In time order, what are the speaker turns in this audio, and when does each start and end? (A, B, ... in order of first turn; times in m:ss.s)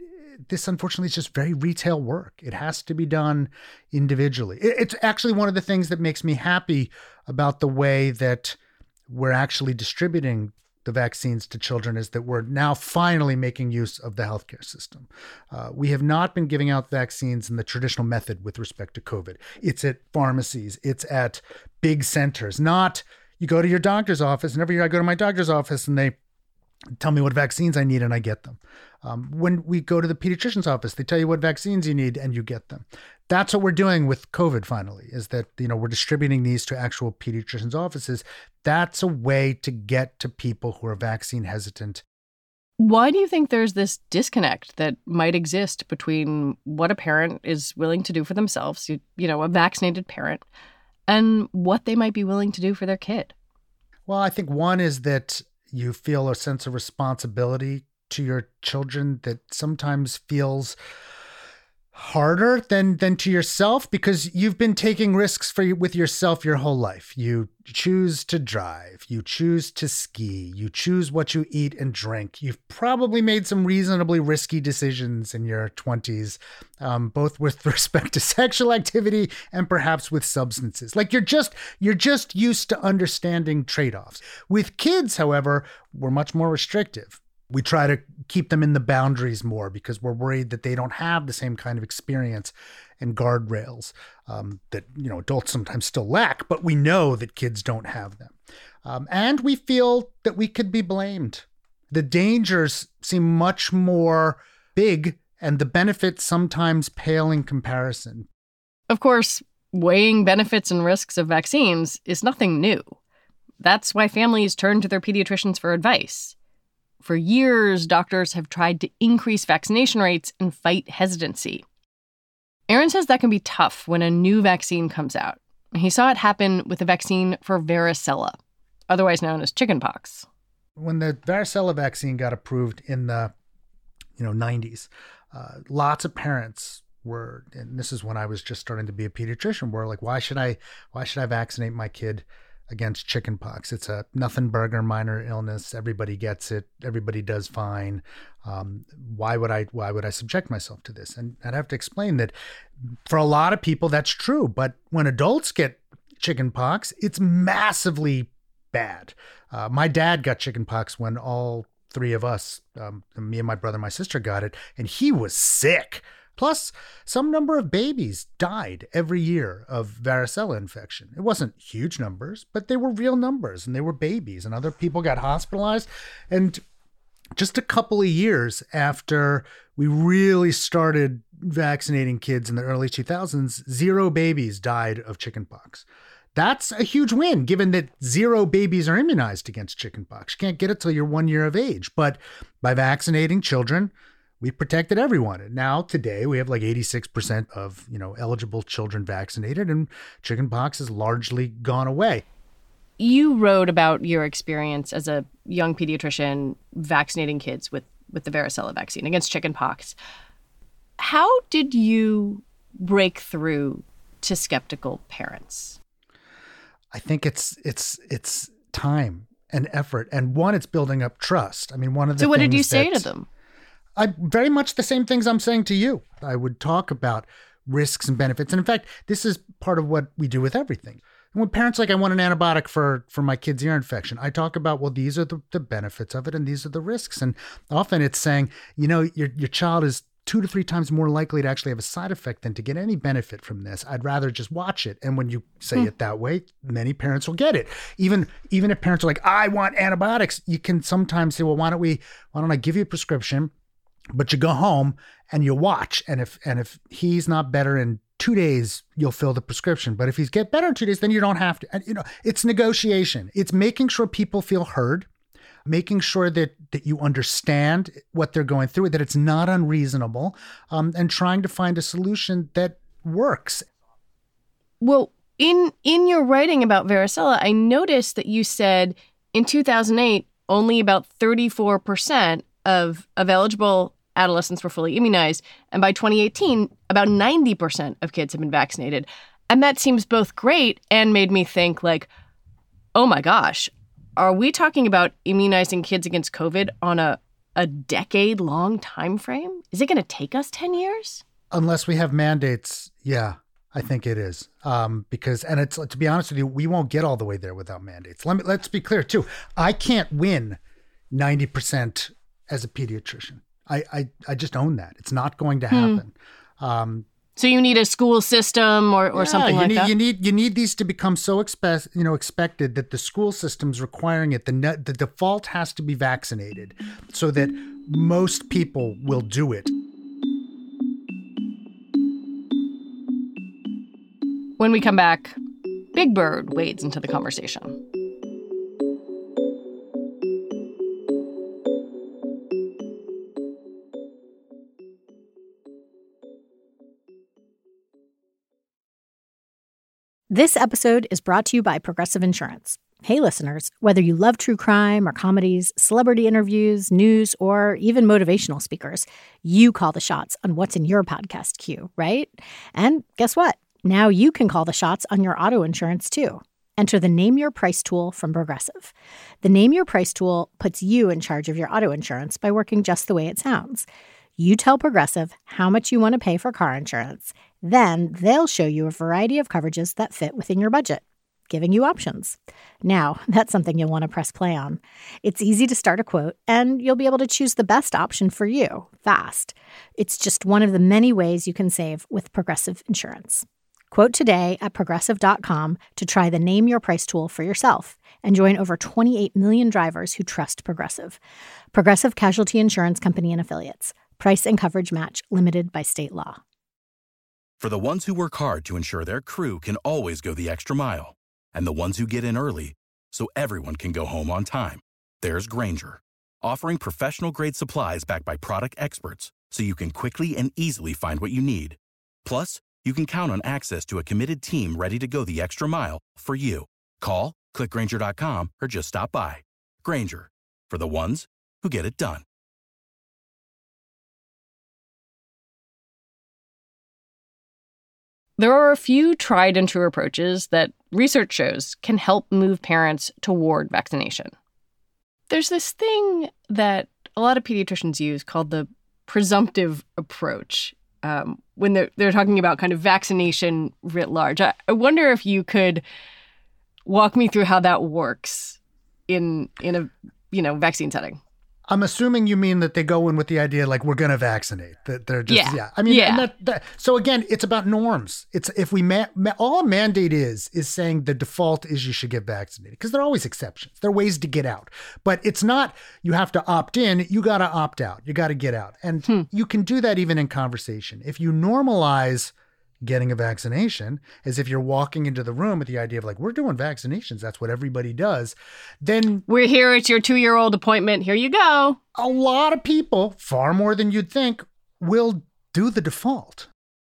0:00.4-0:08.6 A
0:09.1-0:26.2 A
0:27.0-0:42.0 A
0:42.8-0:50.4 B
0:51.1-0:53.3 B
0:54.1-1:00.8 A
1:01.9-1:48.3 A
1:48.9-1:53.0 B
1:53.6-1:56.3 B
1:57.0-2:01.6 B
2:02.7-2:08.4 B
2:08.9-2:10.3 B
2:10.8-2:13.3 A
2:14.2-2:56.6 A
2:57.4-3:22.2 A
3:23.0-3:30.0 B
3:31.0-3:35.8 B
3:36.9-3:43.1 A
3:42.2-3:43.3 B
3:44.0-4:13.5 A
4:14.1-4:25.1 A
4:25.6-4:33.6 A
4:34.8-4:52.1 B
4:52.9-5:01.2 B
5:01.5-5:10.6 A
5:11.1-5:17.0 A
5:15.7-5:16.0 B
5:17.4-5:19.9 B
5:19.1-5:29.7 A
5:34.6-5:35.4 B
5:35.9-5:37.8 B
5:50.3-6:41.2 C
6:41.7-6:46.4 C
6:47.6-7:12.2 D
7:18.4-7:24.3 B
7:25.3-7:35.8 B
7:36.8-7:41.2 B
7:41.7-8:09.2 A
7:45.3-7:46.3 B
8:09.3-8:11.8 B
8:11.9-8:16.5 A